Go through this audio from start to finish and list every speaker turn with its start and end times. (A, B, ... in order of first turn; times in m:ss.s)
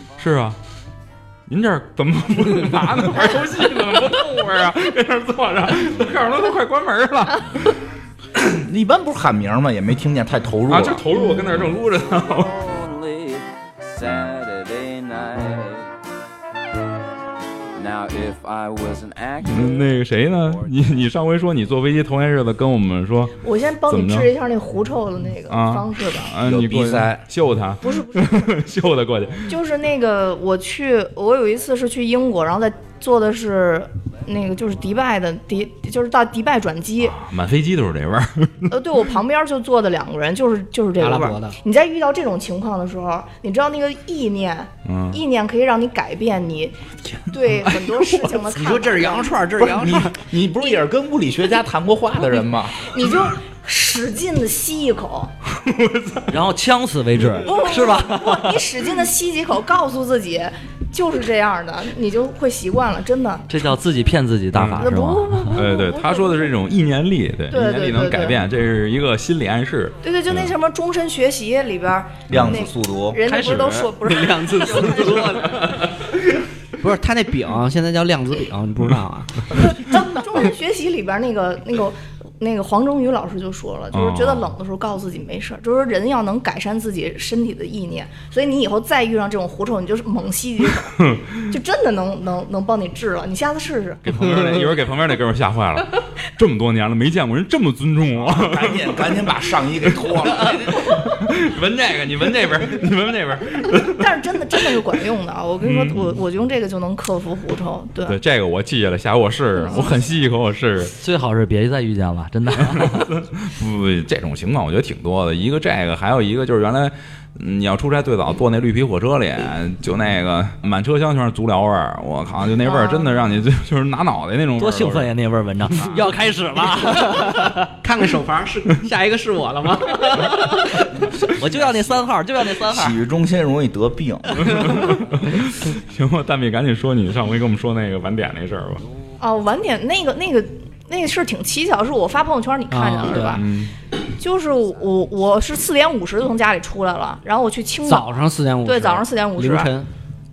0:00.2-0:00.6 A
0:01.5-0:07.7 A
0:08.4-0:11.1 B
0:10.7-0:12.7 A
0:12.6-0:15.8 C
0:17.8-0:19.9 C
0:19.4-0:23.4 A
0:23.4-0:26.4 D
0:23.9-0:24.3 A
0:25.5-0:29.5 A
0:26.4-0:27.2 B
0:27.8-0:28.6 D
0:29.5-0:37.2 D
0:37.0-0:38.7 A
0:38.7-0:49.4 D
0:41.0-0:41.6 E
0:44.8-0:45.2 A
0:47.7-0:48.2 A
0:48.5-0:50.2 E
0:49.6-0:52.9 B
0:52.8-0:55.3 D
0:55.5-0:56.3 A
0:56.3-0:58.8 F
0:57.4-1:03.6 D
1:03.5-1:05.6 F
1:04.5-1:04.9 A
1:04.8-1:06.5 D
1:05.5-1:10.5 A
1:07.5-1:08.4 D
1:10.0-1:15.4 D
1:12.3-1:13.2 B
1:13.3-1:15.6 F
1:14.0-1:15.6 E
1:15.4-1:16.1 A
1:16.8-1:19.5 E
1:19.5-1:34.2 D
1:23.9-1:24.5 A
1:31.0-1:31.4 A
1:34.0-1:39.1 A
1:38.1-1:40.9 B
1:40.3-1:44.1 A
1:43.9-1:48.2 D
1:45.6-1:46.2 A
1:48.0-1:50.9 A
1:49.6-1:50.0 D
1:51.0-1:53.1 F
1:52.7-2:05.1 A
2:02.6-2:03.2 D
2:04.6-2:07.7 F
2:07.8-2:10.8 E
2:10.1-2:13.0 F
2:12.7-2:14.8 B
2:14.5-2:18.8 A
2:19.2-2:23.5 D
2:22.7-2:23.4 E
2:23.3-2:23.7 A
2:24.2-2:28.1 D
2:27.9-2:29.9 E
2:28.6-2:29.7 D